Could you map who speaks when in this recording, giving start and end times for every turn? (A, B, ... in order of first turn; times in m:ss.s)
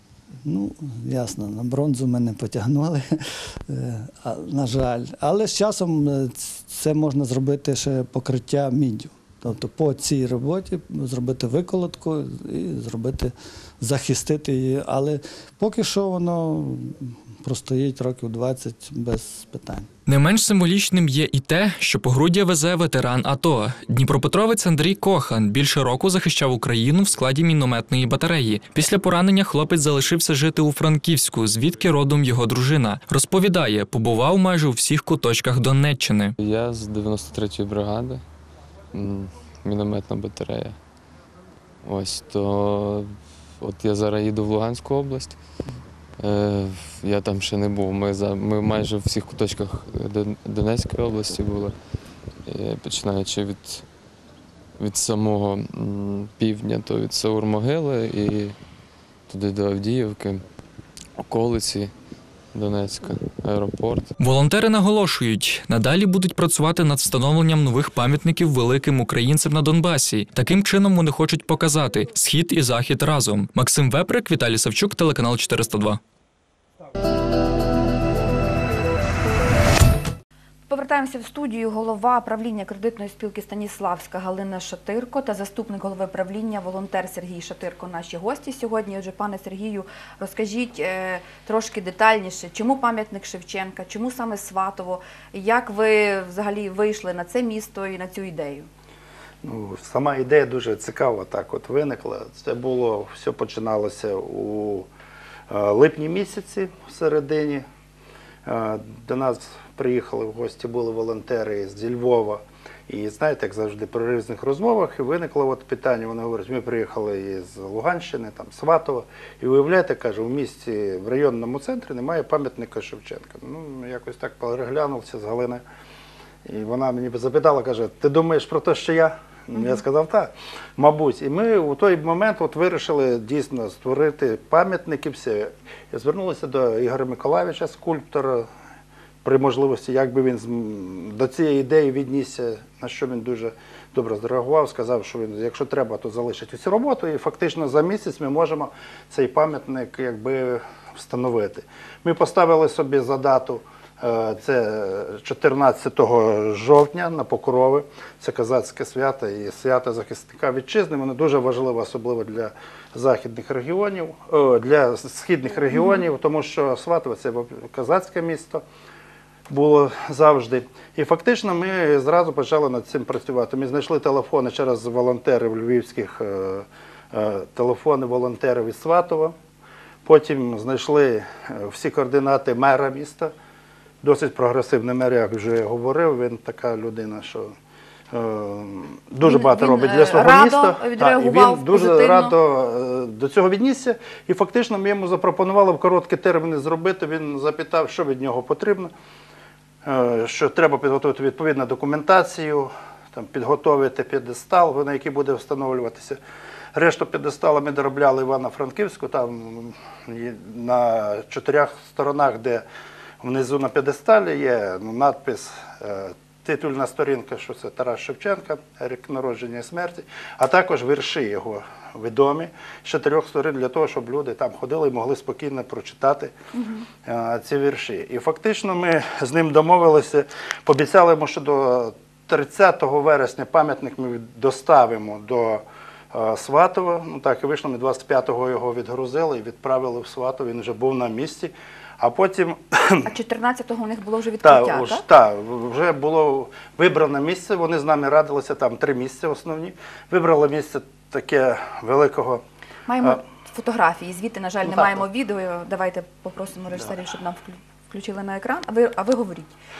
0:00.4-0:19.9 A
0:20.1-0:36.3 B
0:36.4-0:38.2 C
0:38.9-0:40.8 C
0:41.8-0:45.6 C
0:46.2-0:53.9 C
0:54.8-0:58.6 C
0:59.2-1:00.4 C
1:01.2-1:01.9 C
1:02.5-1:04.1 C
1:04.2-1:16.0 B
1:20.7-1:38.7 D
1:39.4-1:44.9 E
1:45.5-1:47.6 E
1:48.4-2:05.6 E
2:06.4-2:18.5 E
2:09.5-2:09.8 D
2:19.2-2:48.6 E
2:45.7-2:46.0 D
2:49.5-2:59.3 E
3:00.0-3:03.3 E
3:04.0-3:07.5 E
3:08.1-3:18.9 E
3:09.2-3:12.4 D
3:19.8-3:26.2 E
3:26.7-3:32.6 E
3:33.2-3:46.3 E
3:46.5-3:46.9 D
3:47.0-4:03.1 E
4:03.0-4:05.0 D
4:04.4-4:12.4 E
4:12.9-4:19.5 D
4:14.6-4:15.0 E